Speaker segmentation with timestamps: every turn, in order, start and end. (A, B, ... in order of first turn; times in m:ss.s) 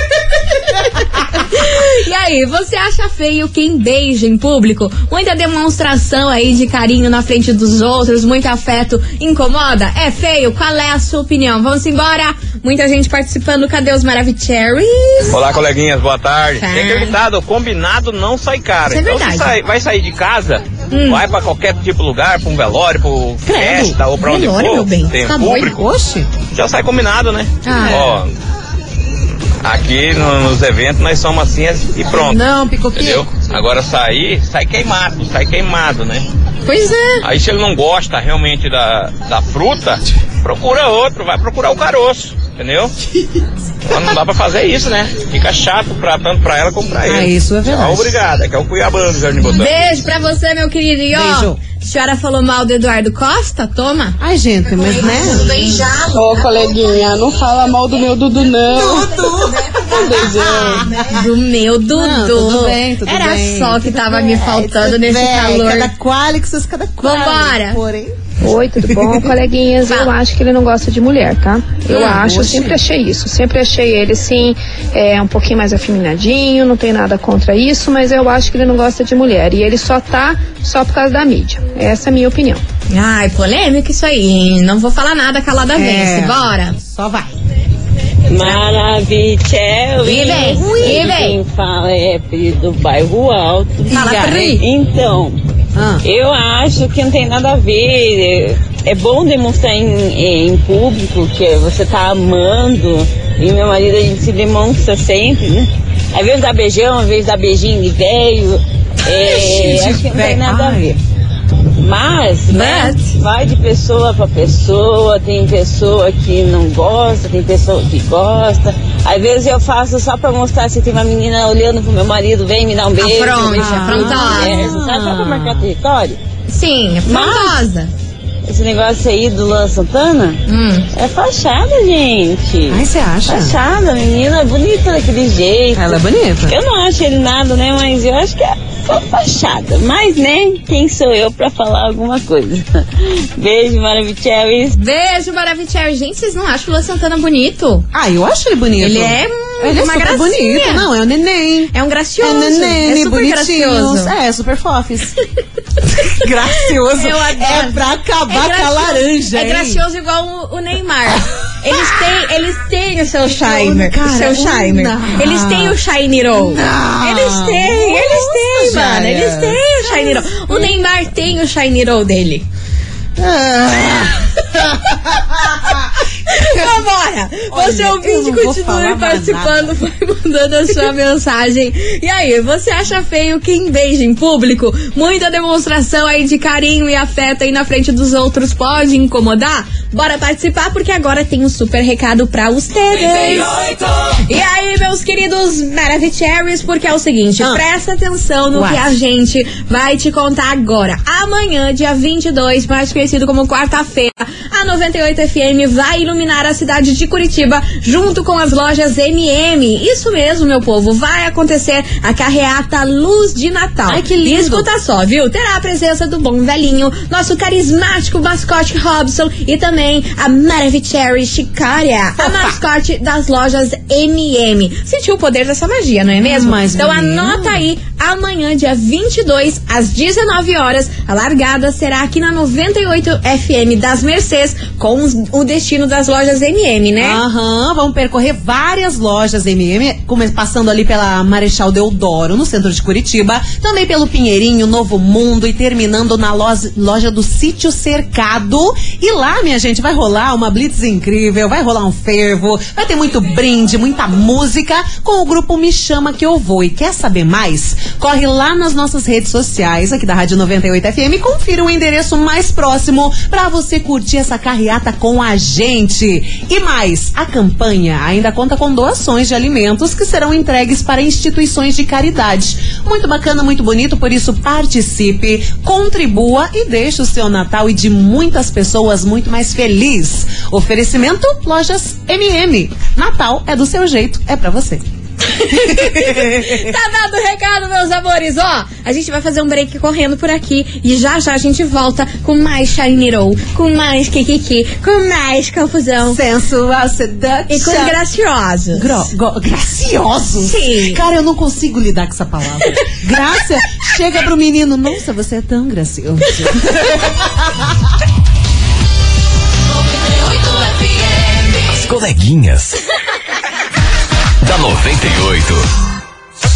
0:00.7-0:15.4 A
0:01.0-0:01.4 B
0:15.3-0:25.9 C
0:16.6-0:17.2 A
0:18.9-0:19.6 A
0:20.9-0:21.2 A
0:23.4-0:24.0 B
0:24.2-0:25.8 A
0:25.5-0:26.3 B
0:26.4-0:28.3 C
0:27.6-0:28.0 A
0:27.8-0:28.2 B
0:29.6-0:32.4 C
0:32.2-0:33.3 B
0:33.0-0:36.2 C
0:36.7-0:37.2 A
0:37.2-0:42.9 C
0:43.9-0:49.8 C
0:47.0-0:48.2 B
0:49.5-0:54.2 A
0:51.1-0:51.6 B
0:54.2-0:55.5 B
0:54.7-0:57.0 A
0:56.1-0:59.2 D
0:58.7-1:01.2 B
0:59.7-1:00.5 A
0:59.8-1:00.9 D
1:01.0-1:05.9 A
1:01.9-1:08.2 B
1:07.0-1:07.8 A
1:08.4-1:22.6 E
1:08.9-1:09.2 B
1:09.9-1:10.1 A
1:11.9-1:12.2 A
1:11.9-1:12.8 B
1:22.9-1:26.8 A
1:25.8-1:27.4 B
1:28.3-1:35.4 F
1:30.0-1:31.4 A
1:30.4-1:31.2 B
1:33.9-1:34.6 A
1:33.9-1:34.6 B
1:35.8-1:36.0 B
1:36.0-1:51.0 F
1:49.1-1:51.0 B
1:51.8-2:06.2 F
1:52.5-1:53.2 A
2:03.0-2:04.7 A
2:03.5-2:05.7 B
2:06.5-2:07.9 A
2:07.1-2:07.6 F
2:08.5-2:10.4 F
2:10.5-2:10.9 A
2:10.9-2:24.8 F
2:12.7-2:13.6 B
2:15.8-2:16.6 B
2:24.7-2:27.9 A
2:27.9-2:35.1 B
2:28.8-2:30.9 A
2:31.7-2:34.1 A
2:35.9-2:39.8 B
2:36.9-2:52.5 A
2:43.4-2:45.8 B
2:46.3-2:50.7 B
2:53.2-2:56.7 B
2:55.1-2:55.8 A
2:56.3-3:57.2 A
2:57.5-2:59.8 B
3:18.5-3:18.9 B
3:33.9-3:34.7 B
3:42.2-3:42.6 B
3:46.2-3:47.6 B
3:57.0-4:44.8 B
4:45.3-4:56.2 A
4:45.5-4:46.7 B
4:56.1-4:58.0 B
4:57.5-4:59.1 A
4:58.8-5:07.6 B
5:00.4-5:01.0 A
5:11.7-5:12.8 G
5:14.4-5:15.7 G